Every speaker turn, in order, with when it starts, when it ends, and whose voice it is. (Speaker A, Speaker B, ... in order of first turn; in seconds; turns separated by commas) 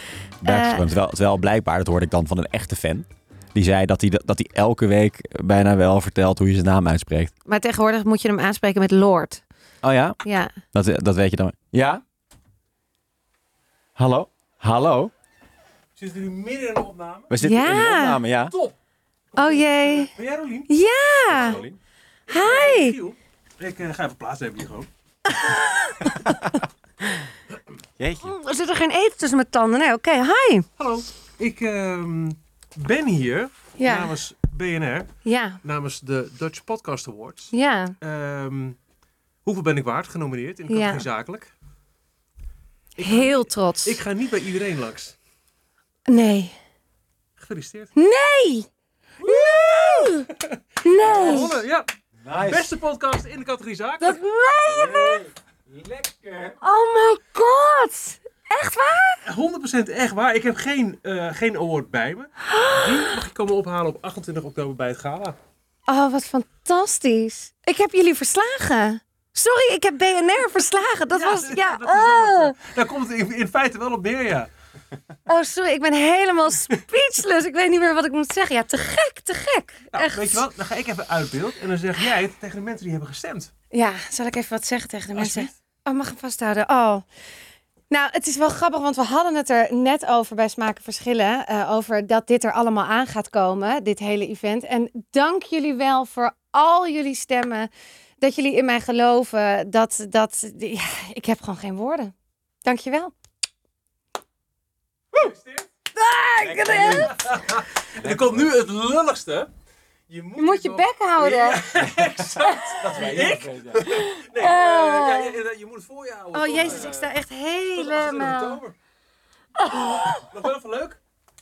Speaker A: 0.4-0.9, Speaker B: 0.4-7.3, Speaker A: 7.4-9.4, Speaker B: 9.8-10.2, Speaker A: 10.2-10.6, Speaker B: 10.7-12.0, Speaker B: 13.9-15.1, Speaker C: 15.9-17.3, Speaker B: 17.3-18.6, Speaker A: 17.4-18.2, Speaker C: 18.5-18.7, Speaker C: 19.3-20.7, Speaker A: 19.4-20.1, Speaker A: 20.7-21.6, Speaker C: 21.3-21.7, Speaker B: 21.3-21.8, Speaker C: 22.3-24.9, Speaker A: 22.3-23.0, Speaker A: 25.3-26.6, Speaker B: 28.0-28.3, Speaker A: 28.1-30.7, Speaker C: 30.8-35.1, Speaker A: 33.8-34.1, Speaker A: 35.2-35.6, Speaker C: 35.6-38.8, Speaker A: 37.5-38.0, Speaker C: 39.4-41.5, Speaker A: 40.7-41.1, Speaker A: 43.0-44.0, Speaker C: 43.0-45.1, Speaker A: 46.1-46.6, Speaker C: 47.4-47.9, Speaker A: 48.0-48.7, Speaker A: 49.2-50.3, Speaker C: 49.2-54.2, Speaker A: 50.8-51.6, Speaker B: 51.0-51.5, Speaker B: 52.2-52.7, Speaker A: 54.0-55.2, Speaker B: 54.6-56.6, Speaker A: 56.6-59.2, Speaker C: 59.2-65.4, Speaker A: 62.5-63.1, Speaker A: 65.9-72.6, Speaker C: 71.1-74.5, Speaker A: 75.3-80.4, Speaker C: 79.9-83.5, Speaker A: 83.7-87.0, Speaker C: 85.1-85.5, Speaker A: 87.9-103.1, Speaker C: 105.1-105.7, Speaker A: 105.9-107.3, Speaker B: 106.4-107.2, Speaker C: 106.7-109.5, Speaker B: 108.0-108.5, Speaker C: 110.1-117.2, Speaker A: 110.4-111.7, Speaker B: 111.8-112.3, Speaker A: 112.4-113.2, Speaker B: 112.8-113.8, Speaker A: 113.8-115.3, Speaker A: 116.3-118.6, Speaker C: 117.7-118.8, Speaker A: 119.6-120.2, Speaker C: 120.1-121.0